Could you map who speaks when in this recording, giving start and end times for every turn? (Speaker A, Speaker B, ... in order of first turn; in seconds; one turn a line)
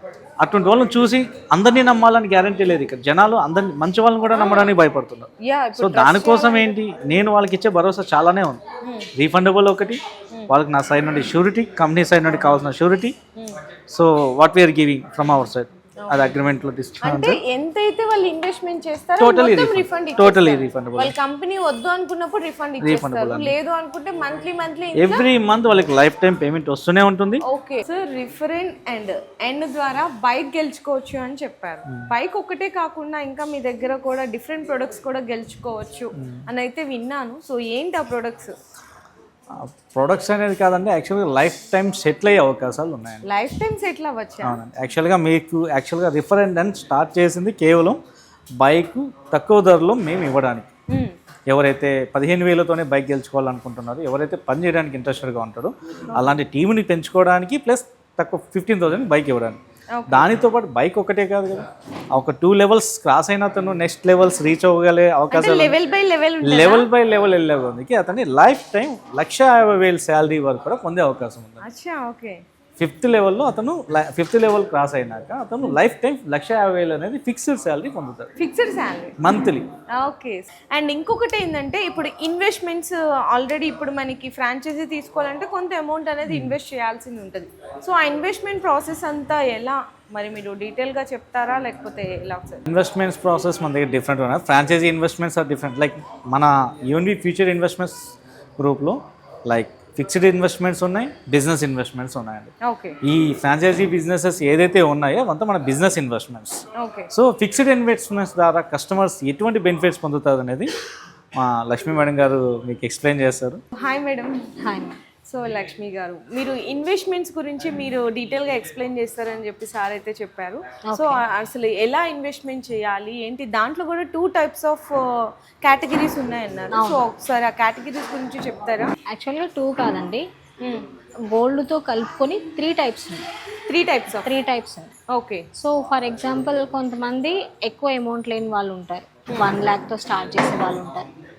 Speaker A: 0.4-8.6
Speaker B: 4.3-4.7
Speaker B: 5.4-6.7
Speaker B: 8.8-9.1
Speaker A: 9.1-13.1
Speaker A: 13.9-17.4
Speaker B: 16.0-16.4
Speaker B: 17.0-25.3
Speaker A: 19.2-21.1
Speaker A: 22.8-23.5
Speaker A: 24.9-27.4
Speaker B: 27.4-38.5
Speaker A: 39.5-43.2
Speaker B: 43.2-44.6
Speaker A: 44.4-48.0
Speaker A: 48.6-50.7
Speaker B: 50.9-51.1
Speaker A: 51.5-65.7
Speaker B: 59.9-60.3
Speaker B: 65.3-66.9
Speaker A: 66.4-71.6
Speaker B: 71.6-72.4
Speaker A: 72.8-78.3
Speaker B: 78.4-79.2
Speaker A: 79.2-79.7
Speaker B: 79.9-92.6
Speaker A: 86.3-86.5
Speaker A: 92.7-102.5
Speaker B: 102.6-103.0
Speaker A: 103.0-110.7
Speaker B: 106.8-107.1
Speaker A: 111.3-113.6
Speaker B: 113.7-114.3
Speaker C: 114.6-115.0
Speaker B: 115.3-128.9
Speaker C: 120.9-121.2
Speaker C: 126.7-127.0
Speaker C: 129.1-130.2
Speaker C: 131.3-133.3
Speaker B: 133.7-134.3
Speaker C: 134.2-134.9
Speaker B: 135.1-135.4
Speaker C: 135.5-141.1